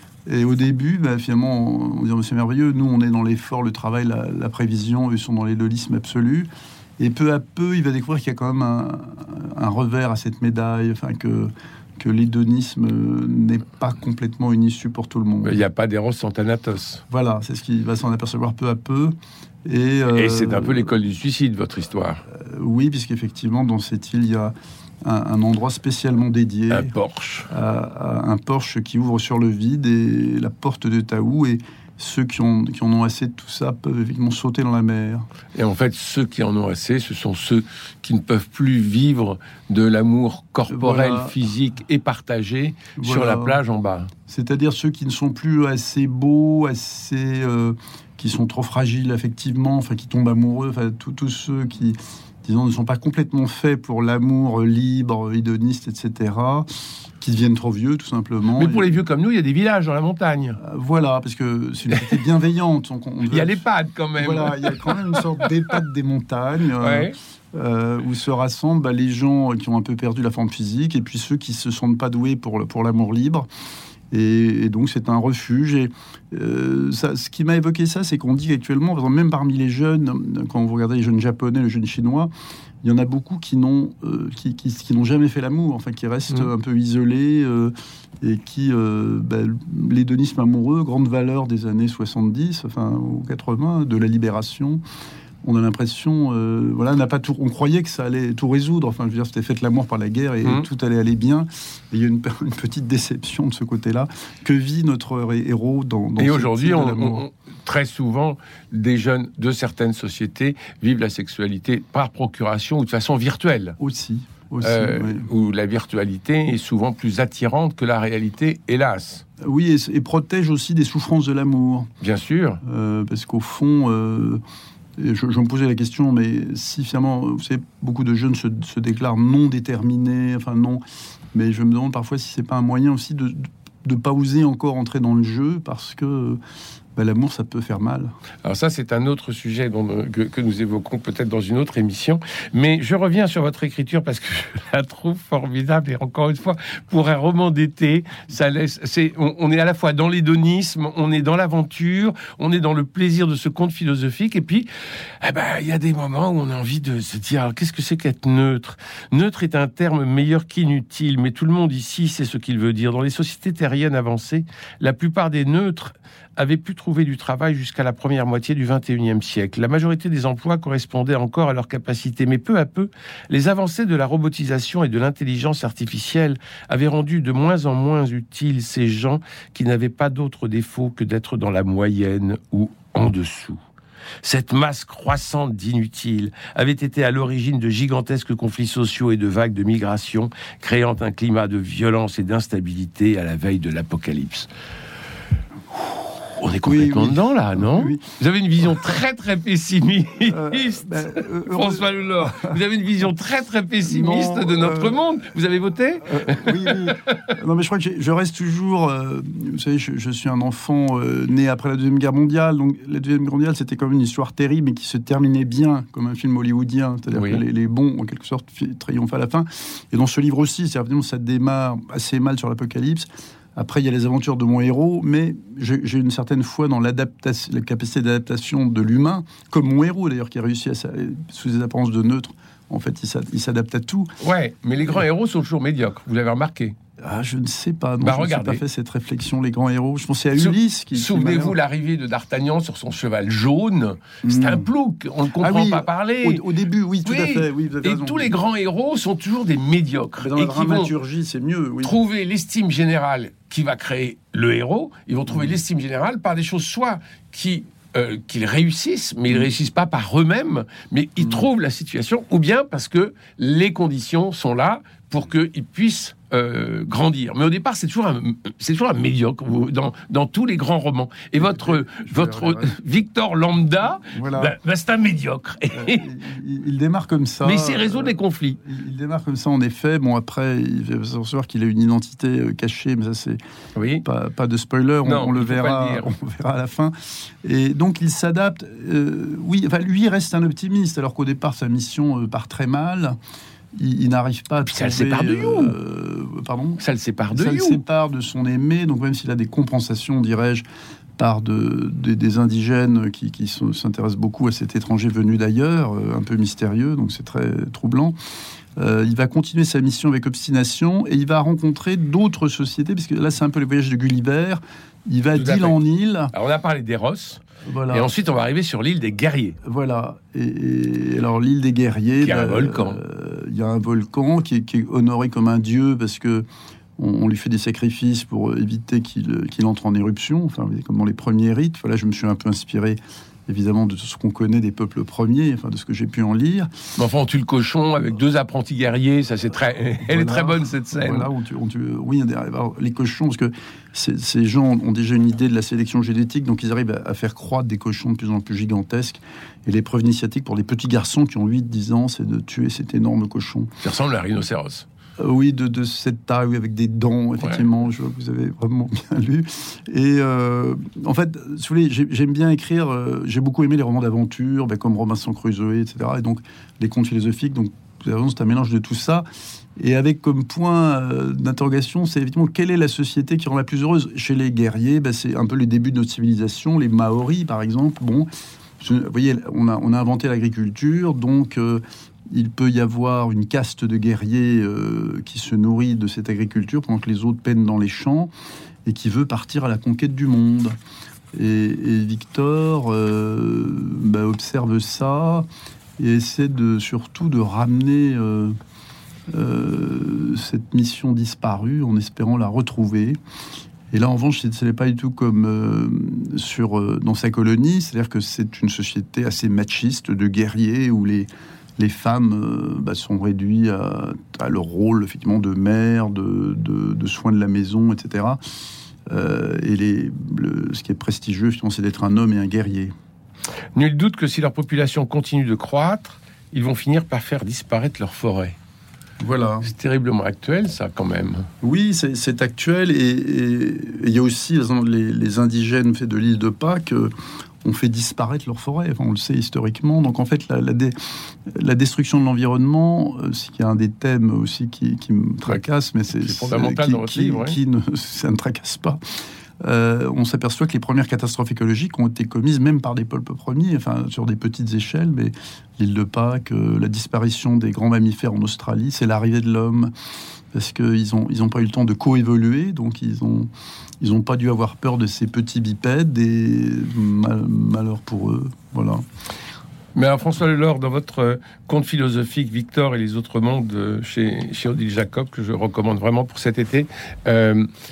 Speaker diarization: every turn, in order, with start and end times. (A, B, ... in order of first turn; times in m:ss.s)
0:00.2-0:06.5 A
0:07.0-0:15.6 A
0:15.4-0:17.0 B
0:17.1-0:20.9 A
0:20.1-0:22.2 B
0:22.3-0:26.9 A
0:26.7-0:27.5 B
0:27.5-0:35.2 A
0:35.5-0:44.1 B
0:40.7-0:41.4 A
0:43.0-0:43.6 A
0:44.3-0:56.7 A
0:57.2-0:58.9 A
0:58.6-1:00.6 B
1:00.6-1:03.6 A
1:03.3-1:05.5 B
1:04.2-1:13.5 A
1:06.8-1:07.2 B
1:14.1-1:22.3 A
1:22.8-1:34.8 A
1:35.4-1:47.2 A
1:46.2-1:53.8 B
1:53.8-1:55.3 A
1:54.6-1:59.2 B
1:59.4-2:01.9 A
2:02.0-2:02.6 B
2:02.6-2:04.4 A
2:05.0-2:10.8 A
2:11.3-2:16.4 A
2:17.0-2:18.1 A
2:18.4-2:34.7 B
2:35.2-3:03.6 B
3:04.2-3:14.5 B
3:16.3-3:27.3 B
3:16.6-3:18.1 A
3:20.3-3:22.6 A
3:23.8-3:25.0 A
3:26.1-3:54.1 A
3:37.1-3:37.4 B
3:54.2-3:56.7 B
3:57.0-4:01.6 A
3:58.0-3:58.6 B
4:00.4-4:06.4 B
4:04.2-4:04.7 A
4:05.4-4:08.3 A
4:07.0-4:10.9 B
4:10.2-4:12.0 A
4:11.8-4:36.1 B
4:21.2-4:21.5 A
4:31.4-4:32.7 A
4:34.0-4:34.5 A
4:35.7-4:43.4 A
4:37.4-4:38.6 B
4:43.8-4:44.0 B
4:44.0-4:53.2 A
4:45.0-4:46.1 B
4:53.7-4:56.8 A
4:54.6-4:55.8 B
4:56.8-4:57.8 B
4:57.3-5:00.6 A
5:01.2-5:08.2 A
5:08.8-5:16.3 A
5:15.3-5:15.8 B
5:16.3-5:19.6 B
5:17.6-5:18.1 A
5:19.6-5:36.7 A
5:22.2-5:23.0 B
5:37.0-5:41.3 B
5:40.0-5:53.7 A
5:53.8-5:54.8 B
5:55.2-6:09.2 A
6:09.8-6:18.3 A
6:18.8-6:28.3 A
6:28.8-6:30.8 A
6:31.3-6:35.5 A
6:36.0-6:38.6 A
6:39.3-6:43.2 A
6:43.9-6:58.4 A
6:59.1-7:02.9 A
7:03.7-7:08.6 B
7:09.2-7:09.7 A
7:09.6-7:11.5 B
7:11.6-7:29.0 A
7:26.1-7:27.6 B
7:29.6-7:39.9 A
7:40.5-7:43.5 A
7:44.0-7:49.0 A
7:49.9-7:57.7 B